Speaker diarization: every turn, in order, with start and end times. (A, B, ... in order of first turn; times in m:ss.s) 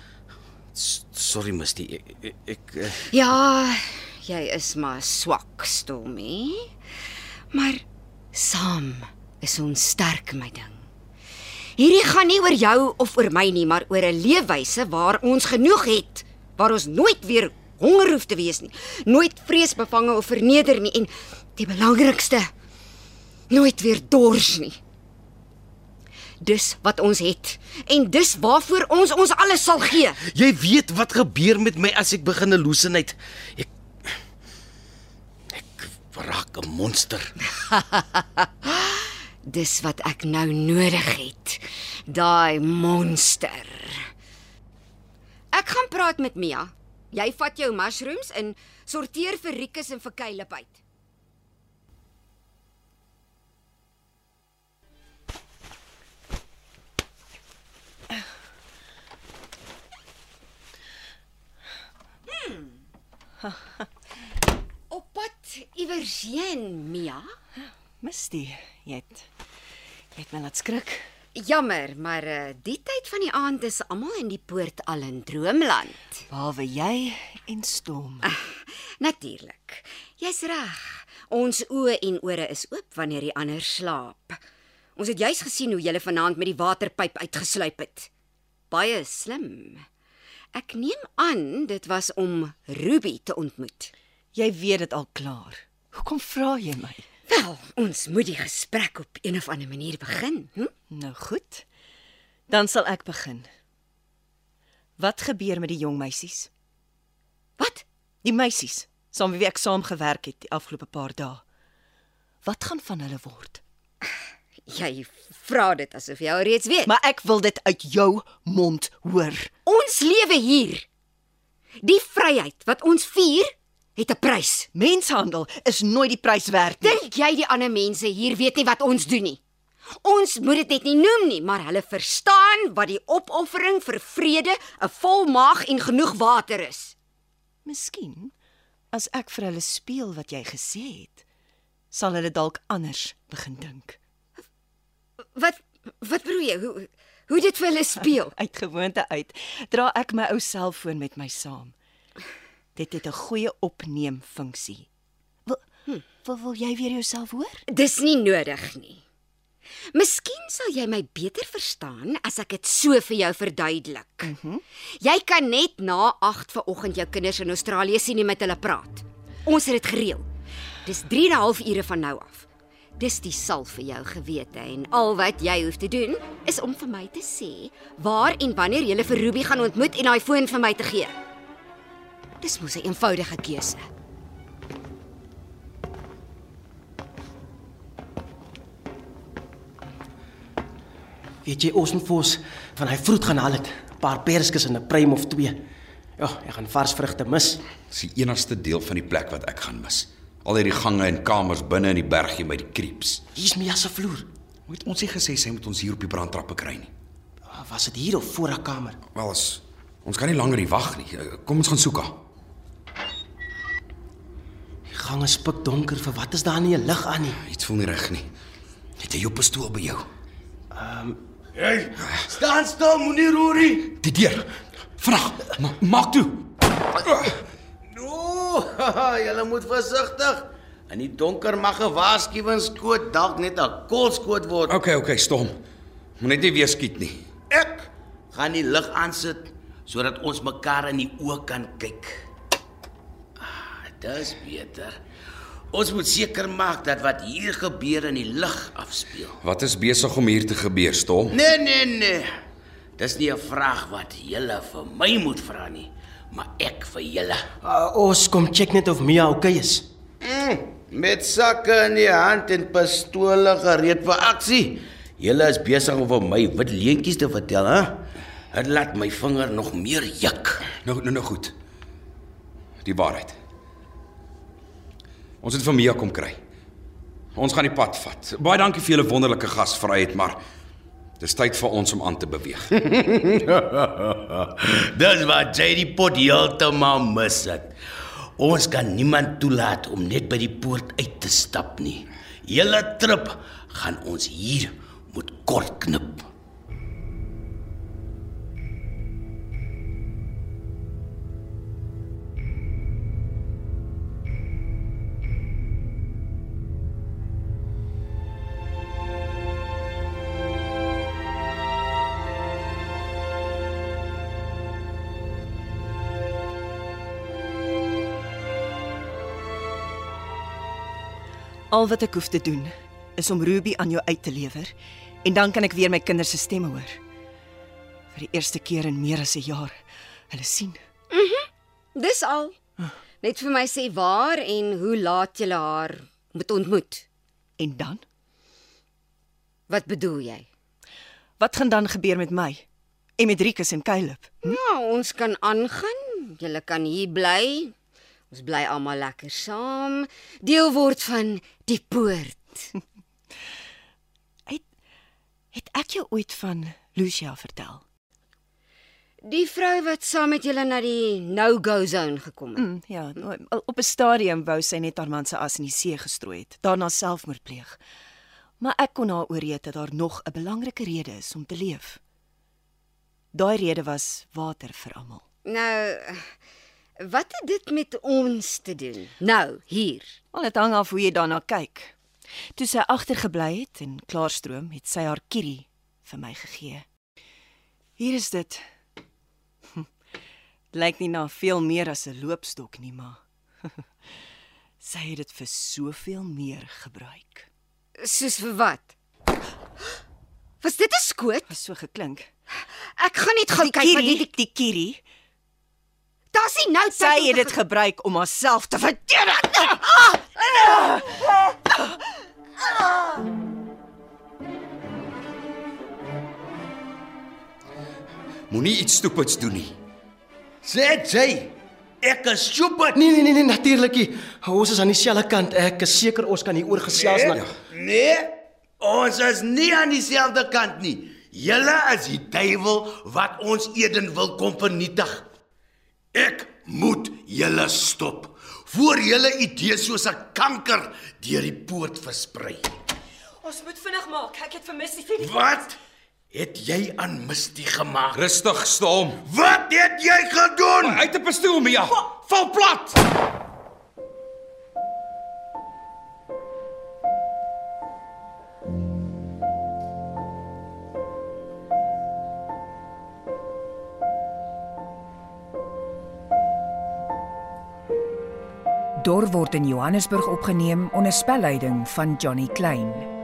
0:00.7-0:03.1 A
0:03.1-0:06.7 B
0:07.5-0:10.9 B
0:11.8-0:22.5 B
0:23.5-0:24.8 B
0:26.4-0:30.2 B
0:30.2-0:33.7 A
0:35.5-0:37.3 A
0:37.5-0:44.1 B
0:45.5-0:50.8 B
1:02.4-1:02.6 B
1:03.4-1:03.8 C
1:04.9-1:07.3 B
1:08.0-1:09.3 C
1:10.2-1:11.1 C
1:11.4-1:16.2 B
1:16.3-1:18.2 C
1:18.2-1:24.4 B
1:25.0-1:28.1 B
1:28.7-1:29.8 B
1:30.5-1:33.9 B
1:34.3-1:37.0 C
1:37.3-1:40.7 B
1:40.9-1:41.6 C
1:42.5-1:43.5 C
1:45.0-1:46.5 C
1:47.6-1:47.8 B
1:48.2-1:51.4 C
1:52.4-1:53.6 C
1:54.7-1:56.9 B
1:56.8-1:59.5 C
1:59.7-2:00.9 B
2:01.8-2:04.7 B
2:04.7-2:07.0 C
2:06.8-2:09.4 B
2:10.0-2:17.0 B
2:17.6-2:18.3 C
2:18.9-2:21.2 C
2:21.9-2:24.0 C
2:25.4-2:28.3 B
2:28.3-2:31.7 C
2:32.8-2:34.9 C
2:36.2-2:37.6 C
2:37.7-2:39.0 B
2:39.9-2:44.3 B
2:44.3-2:44.6 C
2:45.0-2:50.3 B
2:50.8-3:01.2 B
3:02.4-3:03.9 B
3:11.4-3:15.6 D
3:16.2-3:17.6 D
3:17.9-3:23.2 E
3:23.4-3:24.3 D
3:24.7-3:26.9 E
3:27.5-3:29.0 D
3:29.2-3:32.2 E
3:34.9-3:37.4 D
3:37.5-3:38.2 E
3:39.0-3:40.0 E
3:40.8-3:41.2 D
3:41.6-3:44.0 A
3:44.0-3:44.4 E
3:45.0-3:46.4 E
3:47.1-3:47.4 E
3:47.9-3:54.8 A
3:54.7-3:55.6 E
3:56.2-3:57.2 E
3:57.5-4:02.2 A
4:03.4-4:05.0 A
4:05.7-4:09.4 A
4:09.4-4:11.4 E
4:11.3-4:12.3 A
4:13.0-4:17.5 A
4:17.6-4:19.8 D
4:20.2-4:30.7 A
4:30.8-4:31.5 E
4:32.8-4:33.3 E
4:35.4-4:36.4 E
4:37.4-4:40.4 E
4:41.2-4:42.7 E
4:42.9-4:47.7 A
4:48.4-4:56.3 A
5:21.7-5:24.7 C
5:25.2-5:27.0 C
5:28.1-5:29.7 C
5:30.3-5:30.8 C
5:31.1-5:32.6 B
5:33.2-5:37.0 B
5:37.6-5:38.0 C
5:39.7-5:40.5 B
5:41.4-5:42.6 C
5:43.2-5:44.4 C
5:44.4-5:47.7 B
5:48.3-5:52.7 B
5:55.5-5:57.8 C
5:59.2-6:02.7 B
6:02.6-6:07.8 C
6:08.6-6:12.0 C
6:13.3-6:15.2 C
6:15.4-6:16.3 B
6:17.0-6:20.2 B
6:20.3-6:22.0 C
6:22.6-6:26.8 C
6:28.0-6:28.6 C
6:30.7-6:33.2 C
6:34.8-6:37.5 C
6:38.0-6:39.0 B
6:40.6-6:41.5 B
6:41.5-6:42.3 C
6:42.9-6:44.3 B
6:43.6-6:45.0 C
6:46.3-6:47.6 B
6:46.9-6:50.2 C
6:58.5-6:59.7 E
7:00.6-7:03.0 A
7:02.9-7:07.4 D
7:06.9-7:15.3 A
7:16.1-7:22.7 A
7:23.4-7:25.4 C
7:25.2-7:25.8 A
7:26.3-7:28.2 A
7:28.1-7:29.2 E
7:29.2-7:31.0 A
7:30.8-7:33.0 E
7:49.0-7:53.1 F